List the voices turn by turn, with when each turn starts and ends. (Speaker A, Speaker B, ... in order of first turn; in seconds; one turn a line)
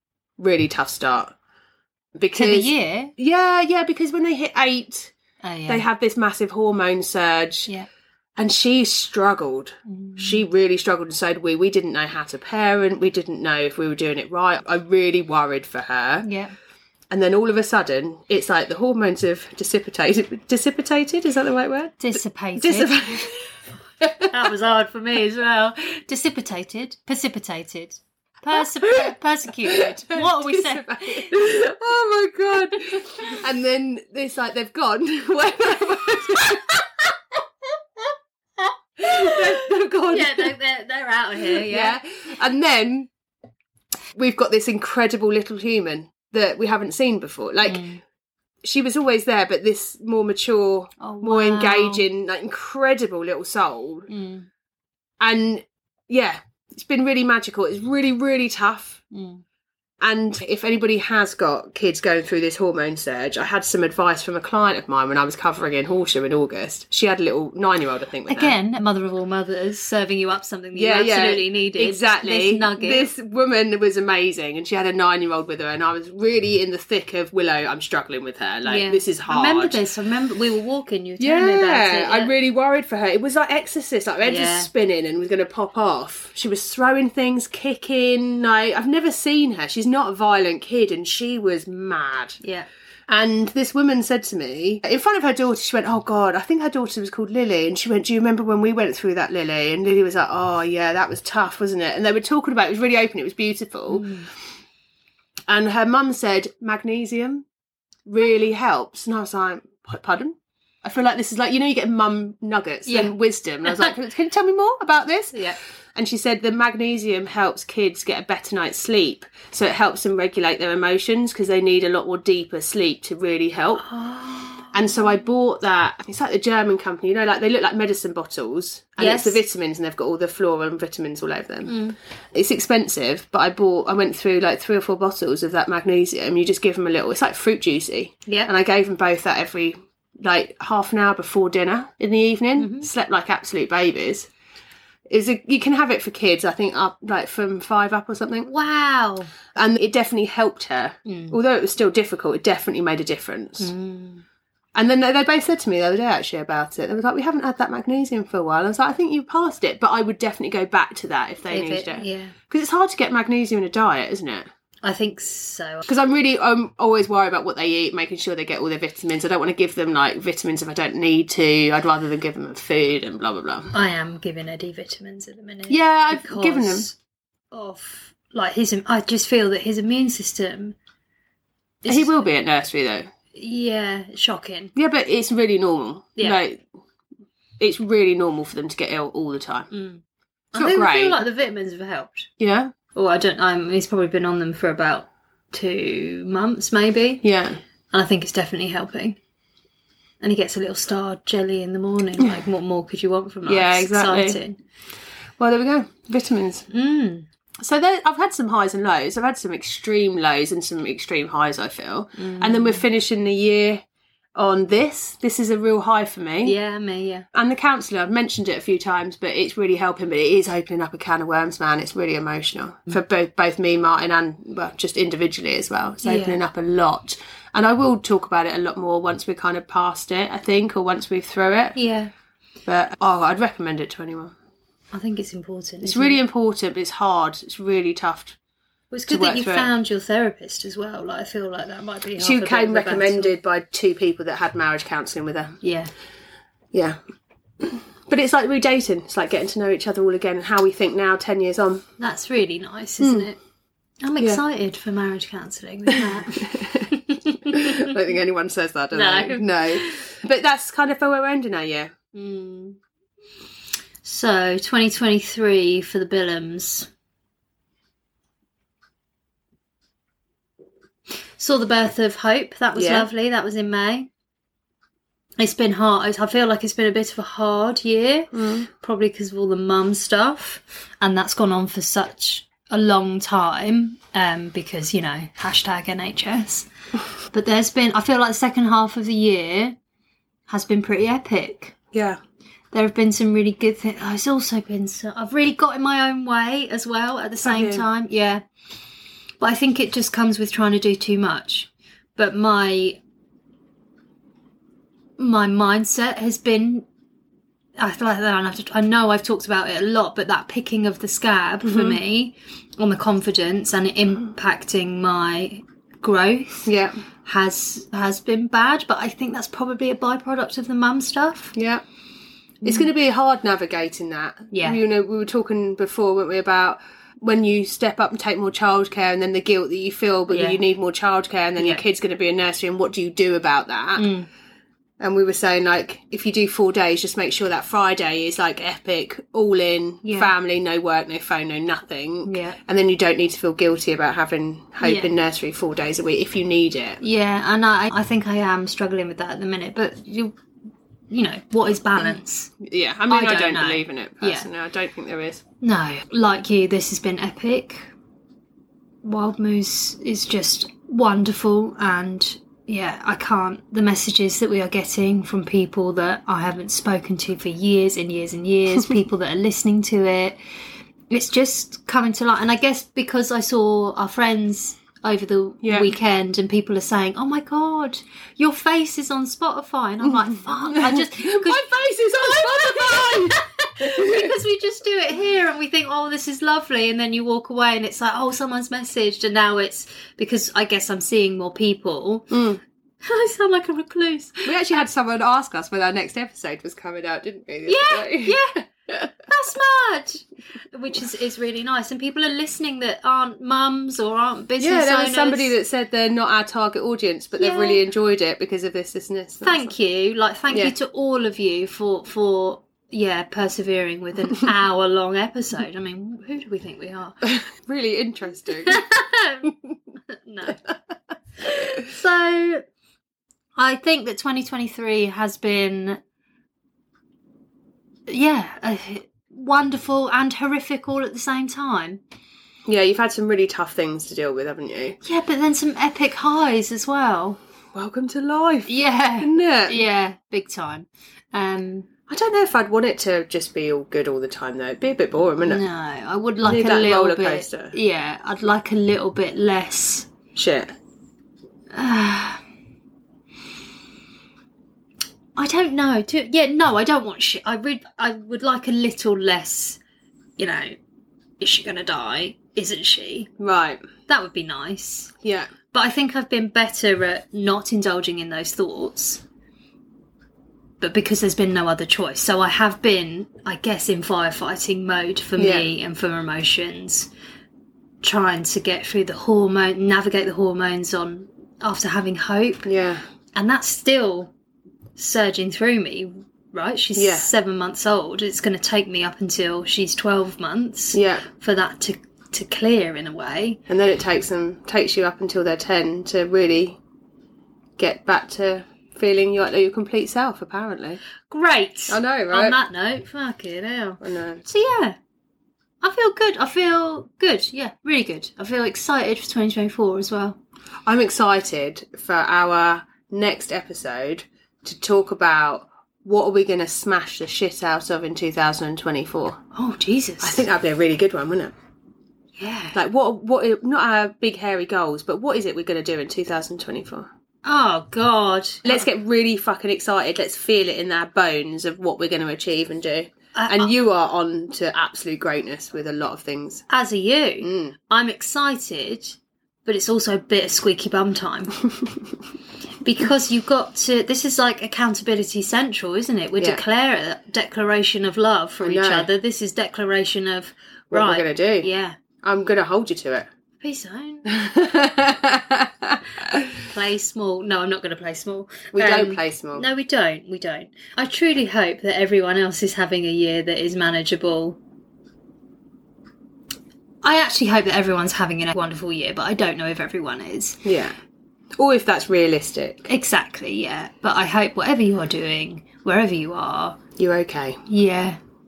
Speaker A: 0.4-1.3
Speaker A: 2.2-5.1
Speaker B: 2.3-3.1
Speaker B: 5.4-5.8
Speaker A: 5.7-7.7
Speaker A: 8.4-16.3
Speaker B: 9.9-10.4
Speaker B: 16.2-16.5
Speaker A: 17.1-23.4
Speaker B: 22.0-23.3
Speaker A: 24.0-24.3
Speaker B: 24.2-31.3
Speaker A: 28.8-29.1
Speaker A: 29.7-37.1
Speaker A: 39.0-40.5
Speaker B: 39.0-42.0
Speaker A: 41.4-43.1
Speaker A: 44.1-47.9
Speaker B: 47.6-48.0
Speaker A: 48.6-54.1
Speaker B: 51.0-52.0
Speaker B: 54.1-54.5
Speaker A: 55.2-59.0
Speaker B: 59.1-59.4
Speaker A: 60.0-68.6
Speaker B: 68.3-73.1
Speaker A: 70.8-79.8
Speaker B: 78.6-82.3
Speaker A: 81.2-92.4
Speaker B: 84.2-84.7
Speaker B: 92.4-92.7
Speaker A: 93.1-104.1
Speaker B: 103.9-104.3
Speaker A: 105.5-107.5
Speaker A: 108.1-123.8
Speaker B: 112.9-113.1
Speaker B: 113.7-113.9
Speaker B: 115.3-115.6
Speaker B: 123.8-125.1
Speaker A: 124.7-131.8
Speaker B: 129.0-129.4
Speaker B: 131.7-132.0
Speaker A: 132.3-144.3
Speaker B: 138.3-138.5
Speaker B: 142.6-142.9
Speaker A: 145.1-148.5
Speaker B: 148.4-149.3
Speaker A: 149.6-153.7
Speaker B: 151.1-151.4
Speaker B: 153.6-154.2
Speaker A: 154.8-164.5
Speaker B: 161.5-162.3
Speaker B: 164.8-165.9
Speaker A: 165.9-173.7
Speaker B: 173.7-177.0
Speaker A: 175.7-176.9
Speaker B: 177.5-180.8
Speaker B: 181.8-182.1
Speaker A: 181.9-183.1
Speaker B: 183.3-184.7
Speaker A: 184.8-186.7
Speaker A: 187.6-189.7
Speaker B: 189.7-190.0
Speaker B: 190.5-192.3
Speaker A: 190.6-191.2
Speaker A: 192.4-192.7
Speaker B: 192.9-197.2
Speaker A: 197.2-197.6
Speaker B: 197.9-199.2
Speaker B: 200.2-204.6
Speaker A: 203.5-204.4
Speaker A: 205.4-206.7
Speaker B: 206.7-207.3
Speaker A: 207.6-213.8
Speaker B: 212.2-212.8
Speaker A: 214.4-216.6
Speaker B: 216.4-217.3
Speaker A: 217.3-231.8
Speaker B: 226.0-226.4
Speaker B: 231.8-232.1
Speaker A: 232.7-234.3
Speaker B: 234.9-236.2
Speaker A: 235.8-238.4
Speaker B: 238.9-243.3
Speaker A: 239.1-239.7
Speaker A: 242.2-245.6
Speaker B: 245.6-245.9
Speaker A: 246.7-247.0
Speaker A: 247.6-251.8
Speaker B: 252.0-253.4
Speaker A: 253.0-253.3
Speaker B: 254.0-257.9
Speaker A: 256.3-256.9
Speaker A: 257.5-261.9
Speaker B: 258.9-260.1
Speaker B: 262.1-262.8
Speaker B: 264.0-266.9
Speaker B: 271.4-274.1
Speaker A: 272.8-273.1
Speaker B: 275.4-286.7
Speaker A: 278.3-278.7
Speaker B: 287.3-289.8
Speaker B: 290.5-291.8
Speaker A: 291.9-292.2
Speaker B: 292.7-298.4
Speaker A: 297.4-297.9
Speaker B: 299.4-303.0
Speaker B: 305.2-306.9
Speaker B: 307.8-316.7
Speaker A: 311.6-312.0
Speaker A: 316.7-317.0
Speaker B: 317.2-321.5
Speaker A: 321.6-321.8
Speaker B: 322.6-322.9
Speaker A: 322.6-334.1
Speaker B: 324.5-324.8
Speaker B: 330.3-330.6
Speaker B: 331.6-331.8
Speaker B: 334.0-334.3
Speaker A: 335.0-347.0
Speaker B: 340.0-340.3
Speaker B: 342.2-342.6
Speaker B: 344.8-345.1
Speaker B: 347.0-350.4
Speaker B: 351.1-352.5
Speaker A: 352.0-355.4
Speaker B: 353.1-354.5
Speaker B: 355.6-357.9
Speaker B: 359.0-370.4
Speaker B: 371.1-392.4
Speaker A: 375.6-375.9
Speaker A: 380.6-384.4
Speaker A: 392.3-392.6
Speaker B: 393.0-394.6
Speaker A: 394.4-399.1
Speaker B: 397.7-398.7
Speaker B: 399.2-405.5
Speaker A: 404.6-409.7
Speaker B: 407.4-407.8
Speaker B: 409.4-417.4
Speaker A: 417.5-418.8
Speaker B: 418.7-419.6
Speaker B: 420.2-420.7
Speaker B: 421.4-422.6
Speaker B: 423.6-426.0
Speaker B: 428.1-432.0
Speaker A: 432.7-435.0
Speaker B: 435.0-437.4
Speaker A: 437.7-439.8
Speaker B: 438.7-441.9
Speaker A: 442.1-445.6
Speaker B: 445.5-450.1
Speaker A: 446.4-447.8
Speaker A: 450.3-450.7
Speaker B: 451.7-452.4
Speaker B: 455.4-459.8
Speaker B: 460.4-460.8
Speaker B: 461.4-463.3
Speaker A: 463.4-463.8
Speaker B: 464.1-465.1
Speaker A: 465.2-465.5
Speaker B: 465.7-469.2
Speaker B: 470.8-477.1
Speaker A: 475.4-475.7
Speaker B: 478.0-482.7
Speaker A: 482.6-483.0
Speaker B: 483.4-484.3
Speaker B: 485.0-493.6
Speaker A: 486.9-487.3
Speaker A: 490.9-491.2
Speaker A: 493.7-496.8
Speaker A: 497.8-501.0
Speaker B: 501.3-505.0
Speaker A: 501.9-502.6
Speaker A: 504.0-504.4
Speaker B: 505.8-510.4
Speaker A: 510.9-519.4
Speaker B: 519.5-520.5
Speaker A: 520.2-521.5
Speaker B: 522.4-522.8
Speaker A: 522.7-527.1
Speaker B: 527.5-528.9
Speaker A: 528.6-536.6
Speaker B: 533.3-533.7
Speaker B: 536.7-541.6
Speaker A: 537.4-537.8
Speaker B: 542.8-552.0
Speaker A: 548.6-549.1
Speaker A: 550.9-551.7
Speaker A: 552.2-553.3
Speaker B: 553.6-554.3
Speaker A: 554.3-556.0
Speaker B: 556.6-564.6
Speaker A: 558.7-559.7
Speaker B: 567.0-570.6
Speaker A: 570.6-571.0
Speaker A: 571.6-572.9
Speaker B: 572.9-576.8
Speaker A: 577.0-577.6
Speaker B: 577.7-578.2